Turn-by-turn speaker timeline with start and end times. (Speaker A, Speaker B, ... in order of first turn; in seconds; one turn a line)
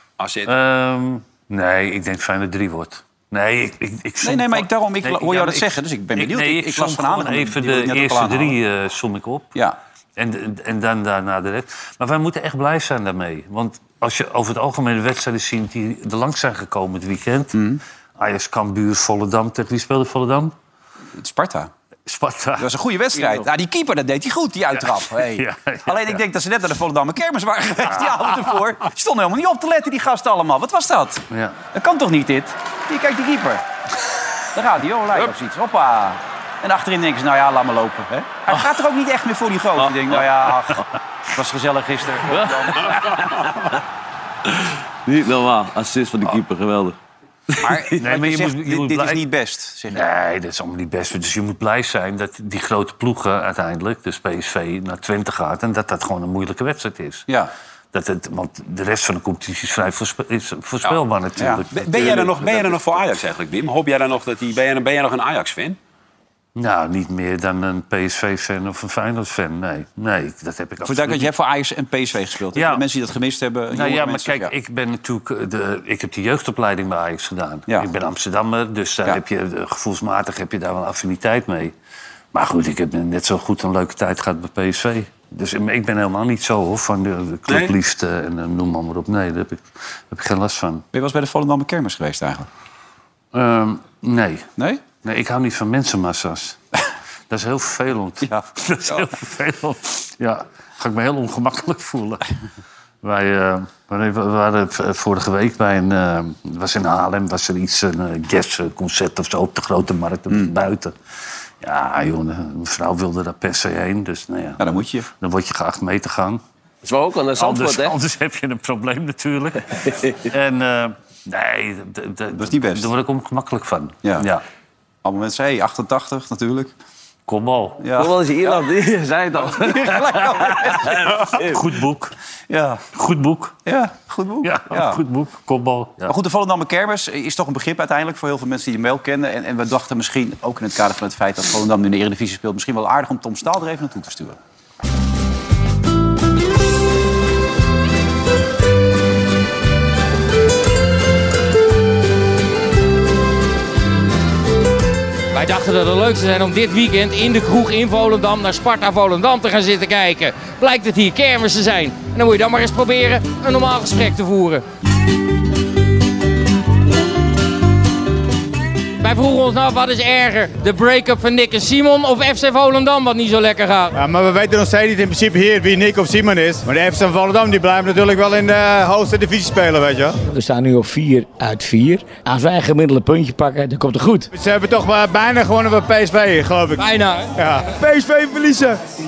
Speaker A: 0.2-0.5
Speaker B: 0.5-9.5
Speaker C: 4.2-8.6
Speaker B: 10.2-17.6
Speaker C: 17.5-17.8
Speaker B: 18.2-20.5
Speaker C: 21.2-21.7
Speaker B: 22.1-22.7
Speaker C: 22.6-33.6
Speaker D: 23.1-23.4
Speaker B: 24.8-26.2
Speaker B: 31.3-31.6
Speaker C: 34.5-43.0
Speaker D: 39.8-40.3
Speaker D: 42.3-43.7
Speaker D: 44.5-47.0
Speaker D: 47.5-47.8
Speaker C: 47.6-50.0
Speaker B: 48.0-49.2
Speaker B: 49.9-57.3
Speaker B: 57.9-62.2
Speaker C: 61.4-62.3
Speaker A: 61.8-65.8
Speaker D: 62.0-62.8
Speaker B: 66.5-71.3
Speaker C: 70.8-74.5
Speaker B: 72.5-72.8
Speaker B: 73.7-81.7
Speaker B: 82.3-90.8
Speaker A: 87.5-87.7
Speaker C: 90.9-92.5
Speaker B: 93.3-96.6
Speaker C: 94.6-94.8
Speaker B: 97.3-102.2
Speaker C: 98.2-99.1
Speaker B: 103.0-110.9
Speaker B: 111.6-116.4
Speaker C: 114.6-115.1
Speaker D: 116.8-117.9
Speaker B: 117.3-124.4
Speaker D: 119.8-120.2
Speaker C: 122.4-122.9
Speaker C: 125.0-126.7
Speaker B: 127.3-127.8
Speaker C: 127.8-128.1
Speaker D: 128.0-131.7
Speaker C: 129.6-131.1
Speaker B: 131.3-132.1
Speaker C: 132.5-132.8
Speaker B: 132.9-133.6
Speaker C: 133.6-135.0
Speaker B: 134.4-136.1
Speaker C: 136.1-144.4
Speaker E: 155.3-164.6
Speaker E: 169.0-173.9
Speaker F: 173.9-180.2
Speaker G: 180.2-184.3
Speaker F: 184.3-187.7
Speaker E: 186.8-187.3
Speaker G: 187.7-188.8